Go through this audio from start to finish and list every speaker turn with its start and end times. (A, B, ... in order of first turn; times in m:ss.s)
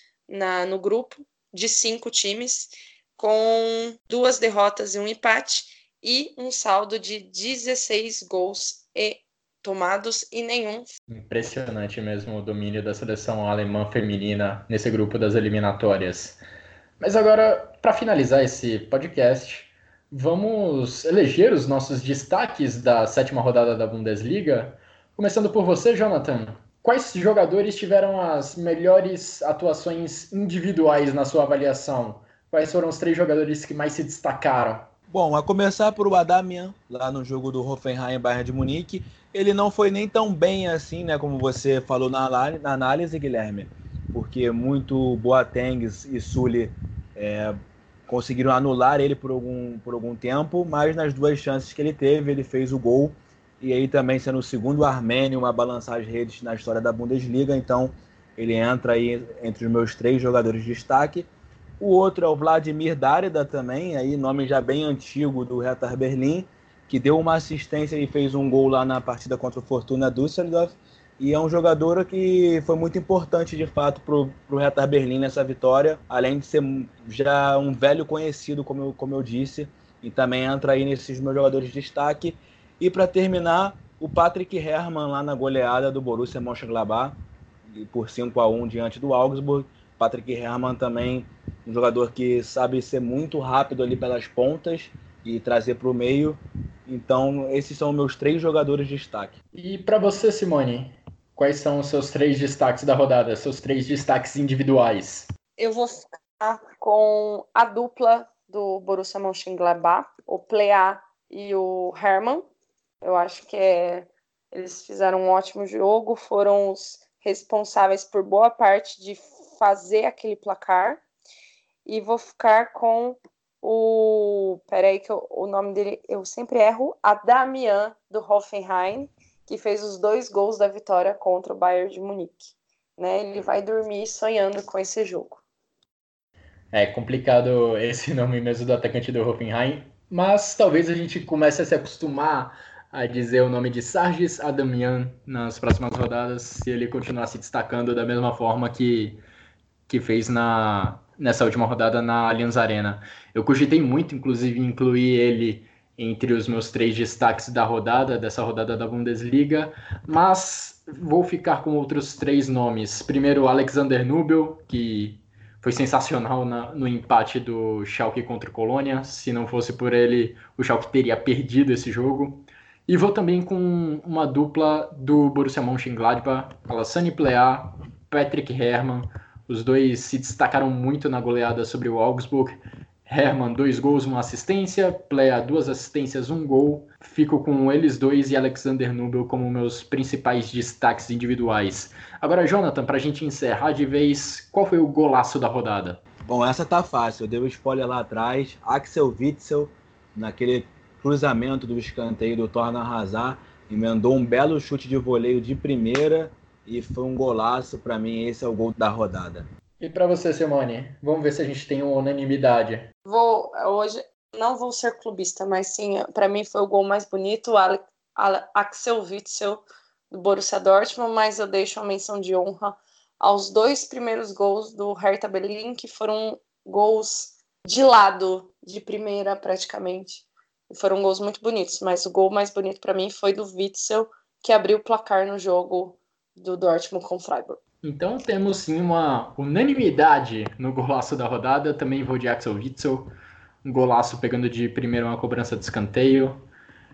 0:00.3-0:10.9 A
0:11.1-0:16.4 B
0:17.0-0:34.8 B
0:35.1-0:47.6 C
0:48.1-1:01.3 C
1:01.8-1:27.1 C
1:27.7-1:39.4 C
1:39.5-1:45.3 B
1:45.6-1:52.5 A
1:53.0-2:01.0 A
2:01.8-2:15.4 A
2:16.7-2:29.2 B
2:29.9-3:02.5 B
3:03.0-3:16.0 B
3:16.3-3:29.4 C
3:29.8-3:32.9 B
3:33.0-3:57.6 A
3:57.8-4:03.1 B
4:03.6-4:06.4 B